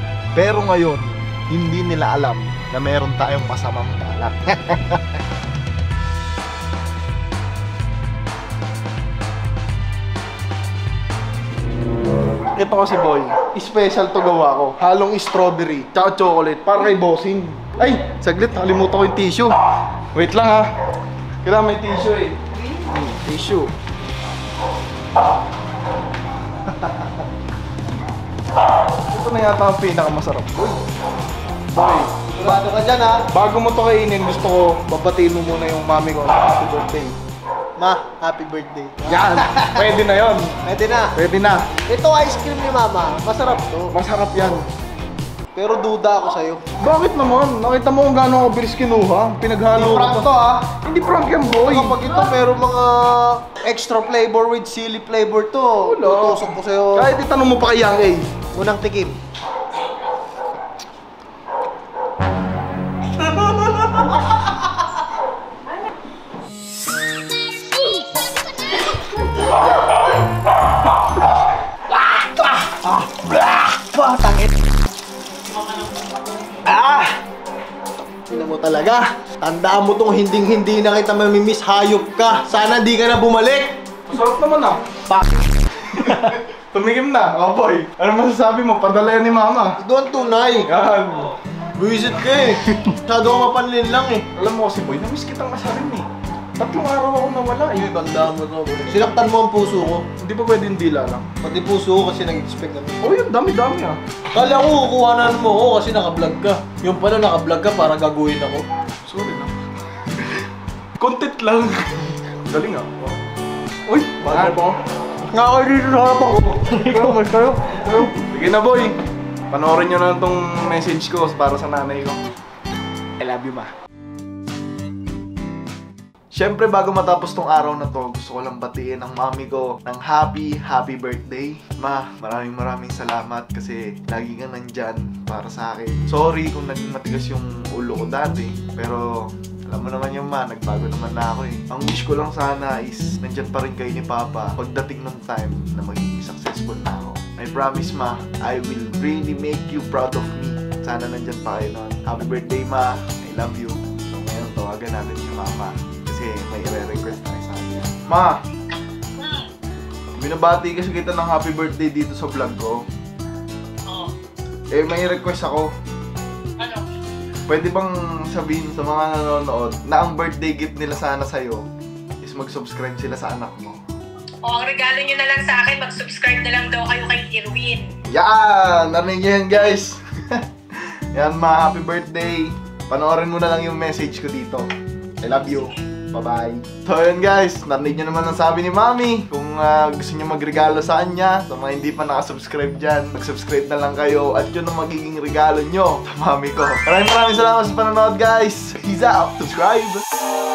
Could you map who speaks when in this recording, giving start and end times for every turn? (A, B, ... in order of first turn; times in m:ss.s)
0:00.3-0:05.0 A
0:12.5-0:19.5 A
0:20.1-0:20.7 A
0:21.4-0:23.7 A
0:29.1-0:30.8 A
0:31.7-0:32.6 A
0:32.3-0:33.2 B
0:33.3-0:37.2 A
0:37.8-0:39.9 B
0:39.1-0:40.5 A
0:40.6-0:41.1 B
0:41.2-0:41.7 A
0:41.9-0:43.9 B
0:43.9-0:44.6 A
0:45.5-0:46.6 B
0:46.8-0:50.3 A
0:49.7-0:50.7 B
0:50.8-0:52.0 A
0:51.6-0:57.1 B
0:55.8-0:58.3 A
0:58.5-0:59.2 B
1:03.2-1:04.1 A
1:12.2-1:14.6 B
1:16.6-1:17.2 B
1:18.3-1:23.7 B
1:24.1-1:24.8 A
1:25.1-1:25.4 B
1:25.9-1:29.8 A
1:25.9-1:26.4 B
1:29.8-1:30.7 B
1:30.6-1:31.3 A
1:31.8-1:34.2 B
1:32.3-1:33.0 A
1:34.3-1:38.7 A
1:38.8-1:40.1 B
1:40.2-1:41.3 A
1:41.4-1:43.2 B
1:43.0-1:44.0 A
1:44.3-1:48.6 B
1:49.0-1:49.5 A
1:51.0-1:53.2 A
1:53.9-1:54.8 A
1:54.3-1:54.5 B
1:55.3-1:58.1 B
1:56.7-1:57.2 A
1:58.2-1:59.0 A
1:59.5-2:02.2 A
2:03.2-2:03.7 A
2:06.3-2:38.4 A
2:40.2-2:42.8 A
2:44.7-2:45.7 A
2:47.5-2:51.6 A
2:52.2-2:53.8 A
2:54.4-2:57.8 C
2:58.1-3:00.4 A
3:01.1-3:04.6 A
3:05.2-3:20.0 A